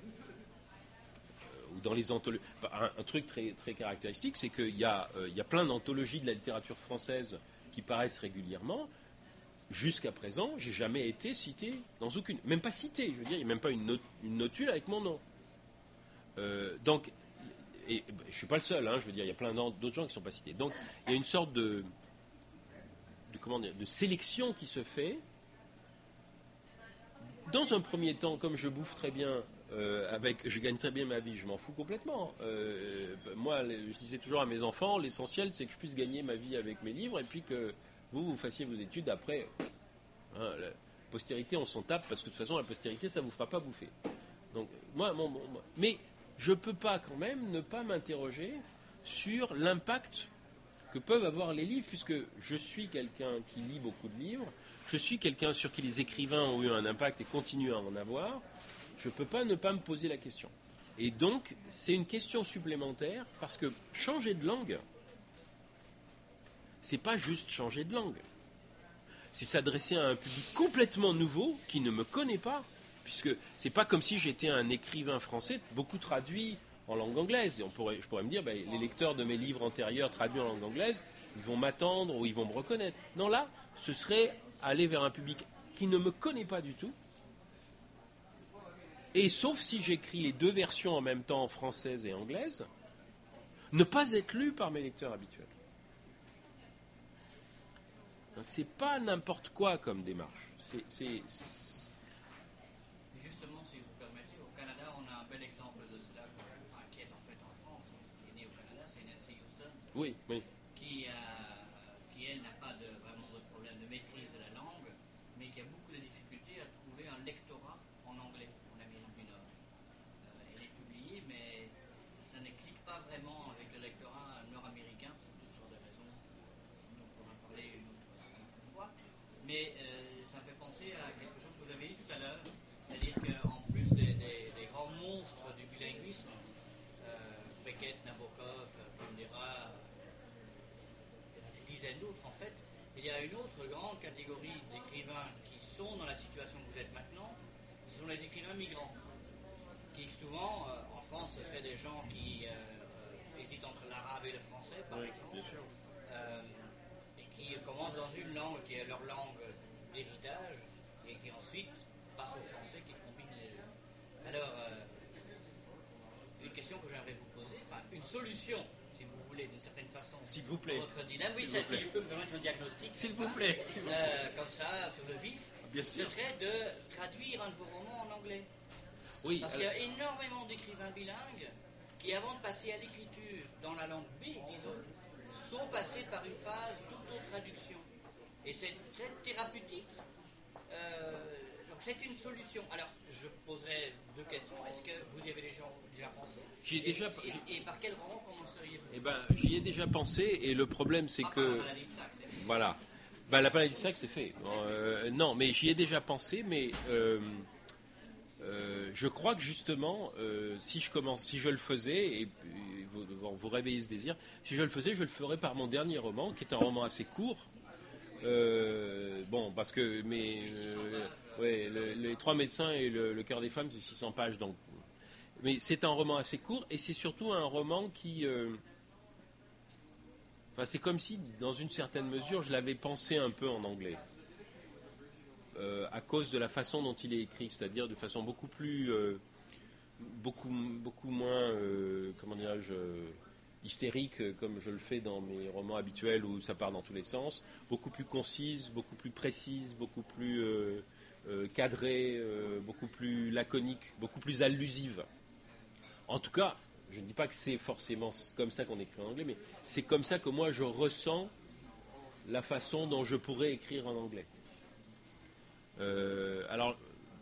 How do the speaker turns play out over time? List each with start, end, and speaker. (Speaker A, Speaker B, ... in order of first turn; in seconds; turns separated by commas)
Speaker A: 1.5-8.9, Speaker A: 9.7-15.2, Speaker A: 16.4-21.9, Speaker A: 23.3-25.2, Speaker A: 27.4-39.5, Speaker A: 40.3-43.9, Speaker A: 44.5-50.3, Speaker A: 50.9-58.4, Speaker A: 59.0-64.8, Speaker A: 66.8-68.2, Speaker A: 69.3-87.0, Speaker A: 89.1-92.7, Speaker A: 93.7-95.5, Speaker A: 98.3-101.9, Speaker B: 103.1-109.9, Speaker A: 109.9-110.4, Speaker B: 110.7-119.5, Speaker B: 120.2-126.2, Speaker B: 126.8-136.4, Speaker B: 137.0-139.9, Speaker B: 141.3-149.0, Speaker B: 149.9-155.5, Speaker A: 154.9-155.7, Speaker B: 156.1-163.7, Speaker B: 164.2-165.0, Speaker B: 166.4-178.5, Speaker A: 170.2-171.9, Speaker A: 172.9-174.2, Speaker A: 175.6-176.1, Speaker A: 179.2-179.7, Speaker B: 179.4-187.9, Speaker B: 188.4-189.9, Speaker B: 190.7-199.0, Speaker A: 196.6-197.5, Speaker A: 198.9-201.7, Speaker B: 201.2-202.4, Speaker A: 202.3-207.5, Speaker A: 208.4-217.5, Speaker A: 218.2-224.6, Speaker B: 220.3-222.2, Speaker A: 225.4-228.6, Speaker A: 230.6-234.0, Speaker A: 235.5-239.2, Speaker A: 240.0-255.1, Speaker A: 256.1-261.3, Speaker A: 262.2-264.3, Speaker A: 265.8-266.8